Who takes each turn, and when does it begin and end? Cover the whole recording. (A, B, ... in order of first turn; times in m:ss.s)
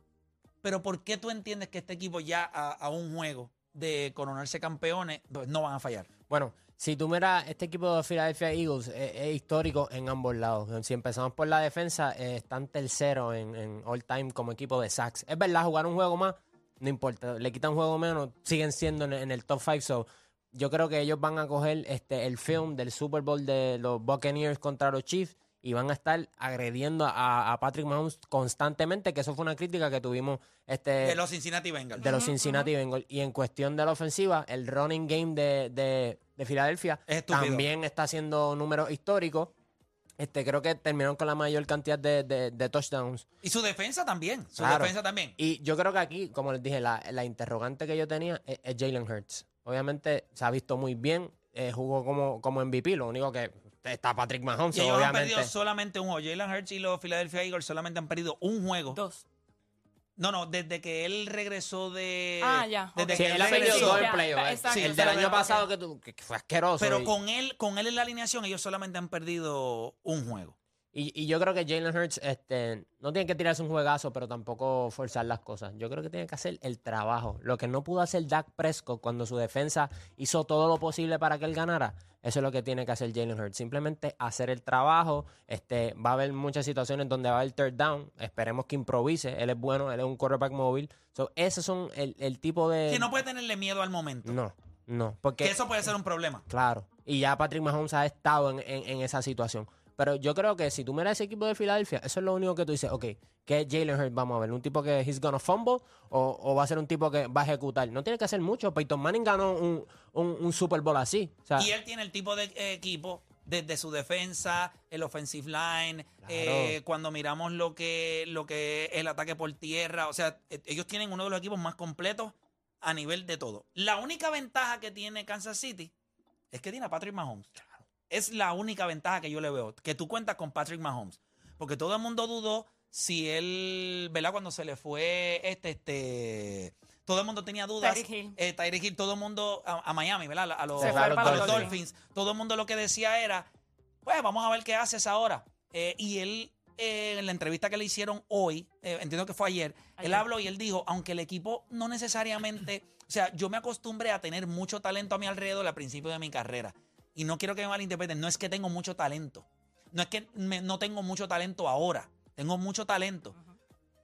0:00.6-0:06.1 A
0:06.3-0:31.2 B
0:31.0-0:32.1 A
0:32.0-0:39.5 B
0:32.0-0:32.7 C
0:37.1-0:37.6 A
0:40.2-0:43.2 B
0:43.4-0:45.3 A
0:44.6-0:55.5 B
0:54.7-0:59.0 A
0:58.9-0:59.2 C
1:00.2-1:04.1 A
1:02.4-1:05.6 C
1:03.1-1:07.1 B
1:04.7-1:05.5 A
1:06.8-1:10.5 A
1:10.9-1:33.1 B
1:32.9-1:34.4 A
1:34.2-1:35.6 B
1:35.4-1:36.4 A
1:36.5-1:51.7 B
1:51.6-2:05.9 A
1:56.2-1:56.8 B
2:06.5-2:23.5 A
2:17.8-2:18.4 C
2:20.8-2:21.7 B
2:20.8-2:21.8 C
2:24.0-2:43.3 A
2:30.0-2:30.2 C